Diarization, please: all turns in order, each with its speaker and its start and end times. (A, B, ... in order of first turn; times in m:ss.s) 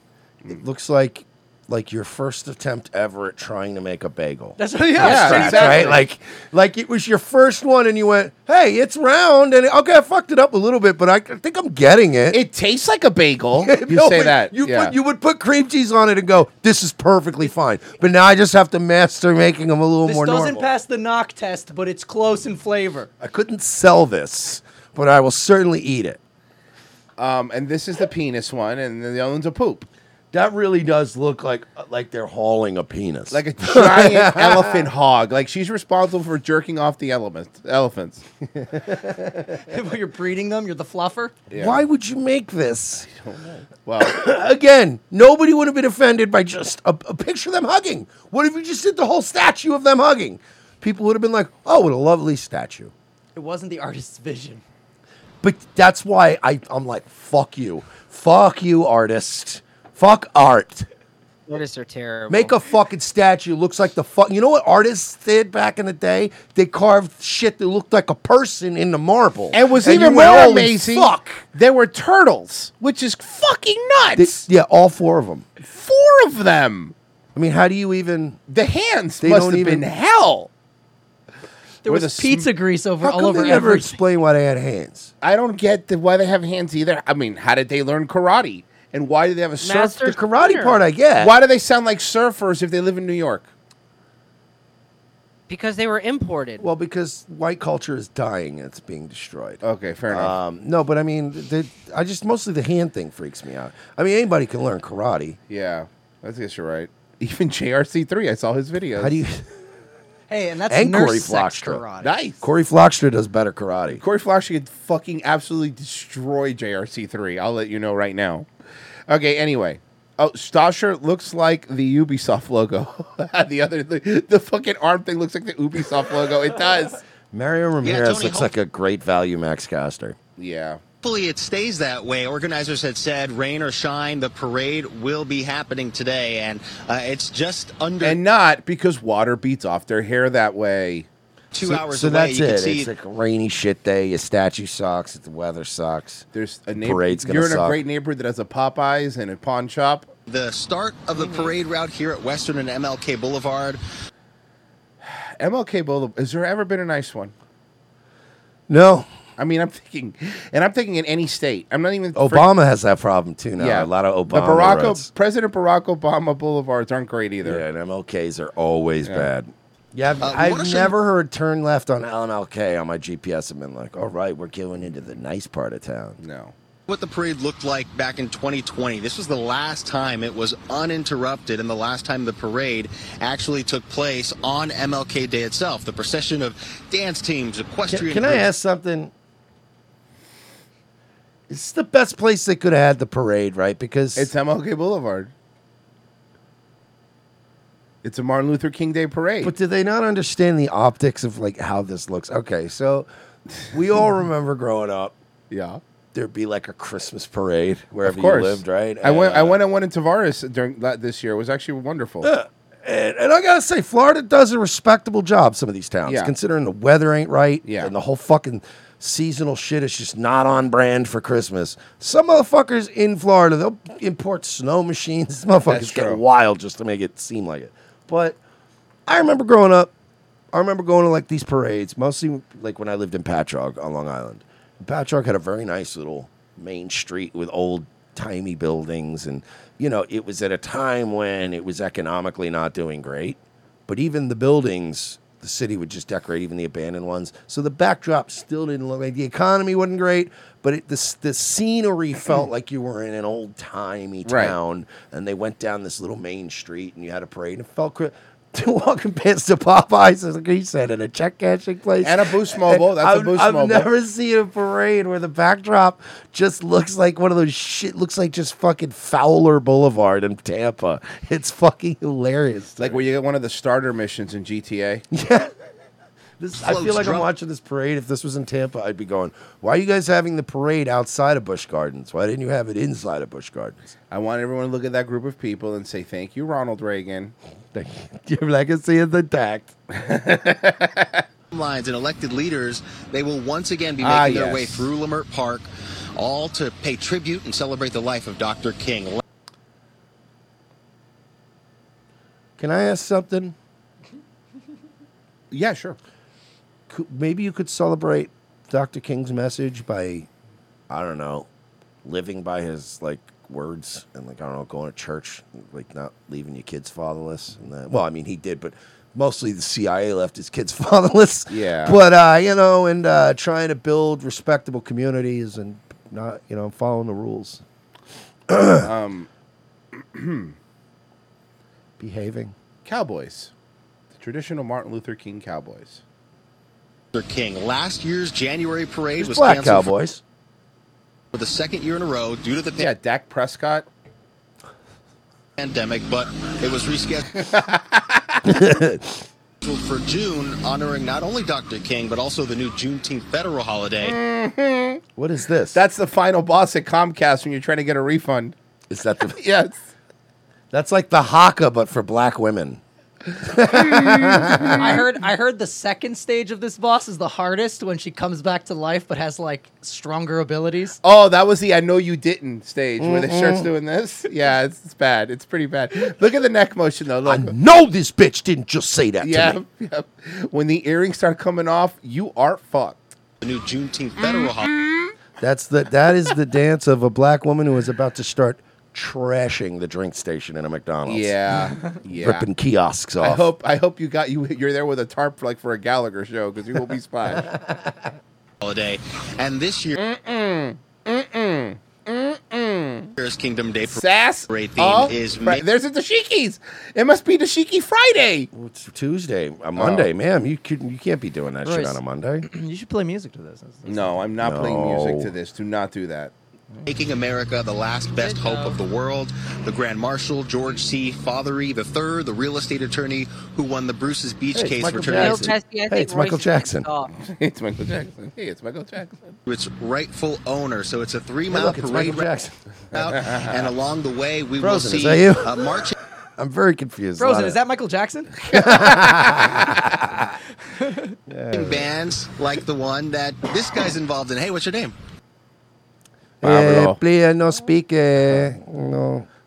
0:00.5-0:12.4 A
0:04.6-0:06.0 B
0:05.0-0:06.0 C
0:12.3-0:15.0 C
0:13.6-0:20.7 A
0:20.0-0:23.1 B
0:23.2-0:26.2 A
0:27.2-0:29.9 C
0:30.3-0:34.8 A
0:33.3-0:38.2 C
0:38.6-0:39.5 A
0:39.6-0:41.4 B
0:41.5-0:41.8 C
0:41.6-0:43.1 A
0:43.0-0:44.2 C
0:44.0-0:52.9 A
0:53.4-0:54.6 B
0:55.4-1:00.9 A
1:01.5-1:02.6 D
1:02.3-1:11.4 A
1:09.5-1:14.5 C
1:14.2-1:15.5 A
1:15.6-1:16.9 C
1:17.4-1:18.4 A
1:18.5-1:20.5 C
1:19.2-1:19.8 A
1:21.8-1:24.0 B
1:21.9-1:22.5 C
1:23.0-1:25.1 A
1:25.2-1:30.1 C
1:29.6-1:30.8 D
1:30.0-1:31.3 A
1:31.2-1:33.5 C
1:35.5-1:36.7 D
1:36.6-1:45.4 A
1:39.6-1:40.4 C
1:45.5-1:49.2 C
1:49.0-1:49.4 A
1:50.3-1:52.2 B
1:50.7-1:51.8 A
1:52.0-1:52.4 C
1:52.4-1:54.0 A
1:53.9-1:58.5 C
1:59.1-2:07.0 C
2:07.3-2:10.2 A
2:07.8-2:08.5 E
2:10.4-2:10.8 C
2:11.0-2:18.2 E
2:18.0-2:21.1 C
2:21.5-2:22.9 E
2:21.6-2:26.2 A
2:26.3-2:30.1 C
2:26.8-2:27.8 A
2:30.3-2:33.8 E
2:35.0-2:37.3 C
2:38.7-2:39.1 A
2:39.4-2:42.5 C
2:42.2-2:45.1 A
2:43.6-2:47.6 C
2:47.4-2:56.2 A
2:50.2-2:51.0 E
2:56.2-2:56.5 C
2:56.9-3:08.5 E
3:07.9-3:09.1 A
3:11.5-3:14.3 A
3:14.2-3:15.3 C
3:18.0-3:19.5 C
3:19.4-3:23.1 A
3:23.7-3:25.2 A
3:25.5-3:25.8 C
3:26.1-3:29.6 A
3:28.0-3:32.3 C
3:32.2-3:48.4 A
3:36.1-3:36.3 C
3:37.6-3:37.9 C
3:45.7-3:46.2 C
3:49.1-3:49.9 A
3:50.5-4:33.0 A
4:14.3-4:14.6 C
4:22.0-4:23.9 C
4:32.8-4:35.0 C
4:35.1-4:35.5 A
4:36.4-4:43.9 A
4:36.6-4:37.3 E
4:44.1-4:47.4 C
4:47.7-4:49.7 A
4:49.9-4:51.2 C
4:51.5-4:59.2 E
4:54.0-4:54.9 C
5:02.6-5:03.6 A
5:05.5-5:06.0 C
5:06.9-5:10.3 A
5:10.9-5:11.5 A
5:12.0-5:27.6 A
5:21.5-5:22.0 C
5:28.5-5:28.9 A
5:28.8-5:29.3 C
5:30.0-5:30.5 C
5:32.0-5:32.5 A
5:32.8-5:33.5 C
5:34.1-5:36.0 C
5:37.1-5:39.9 E
5:39.2-5:40.2 A
5:41.3-5:42.9 E
5:42.8-5:43.9 C
5:45.6-5:47.3 E
5:47.4-5:48.4 C
5:48.4-5:49.2 A
5:49.6-5:54.2 E
5:54.0-5:55.0 C
5:55.2-5:55.8 A
5:55.7-5:58.6 C
5:58.9-5:59.4 A
5:59.4-5:59.9 C
6:00.7-6:02.8 A
6:03.4-6:04.9 A
6:04.1-6:05.0 C
6:04.7-6:11.0 B
6:11.0-6:17.6 C
6:13.0-6:13.7 A
6:17.3-6:19.6 A
6:19.2-6:23.0 C
6:23.4-6:24.7 E
6:24.2-6:25.1 C
6:25.4-6:31.4 A
6:31.1-6:32.5 C
6:32.2-6:33.5 A
6:33.2-6:37.5 C
6:37.4-6:38.0 A
6:38.6-6:40.0 E
6:40.0-6:43.2 C
6:43.2-6:45.6 E
6:43.8-6:48.5 C
6:48.5-6:52.5 A
6:49.8-6:50.1 C
6:51.6-6:54.3 B
6:53.8-6:56.3 C
6:54.4-6:55.3 A
6:56.9-7:05.5 E
6:58.2-6:58.8 D
7:04.5-7:06.9 A
7:05.0-7:07.1 D
7:07.2-7:09.4 C
7:09.5-7:12.3 E
7:11.5-7:12.5 A
7:12.9-7:16.0 E
7:12.9-7:13.7 C
7:14.6-7:15.7 A
7:16.4-7:17.6 A
7:17.2-7:18.3 B
7:18.5-7:20.3 A
7:18.6-7:18.9 C
7:21.3-7:21.9 A
7:21.5-7:25.0 E
7:26.4-7:29.3 A
7:26.4-7:27.0 C
7:28.3-7:28.6 C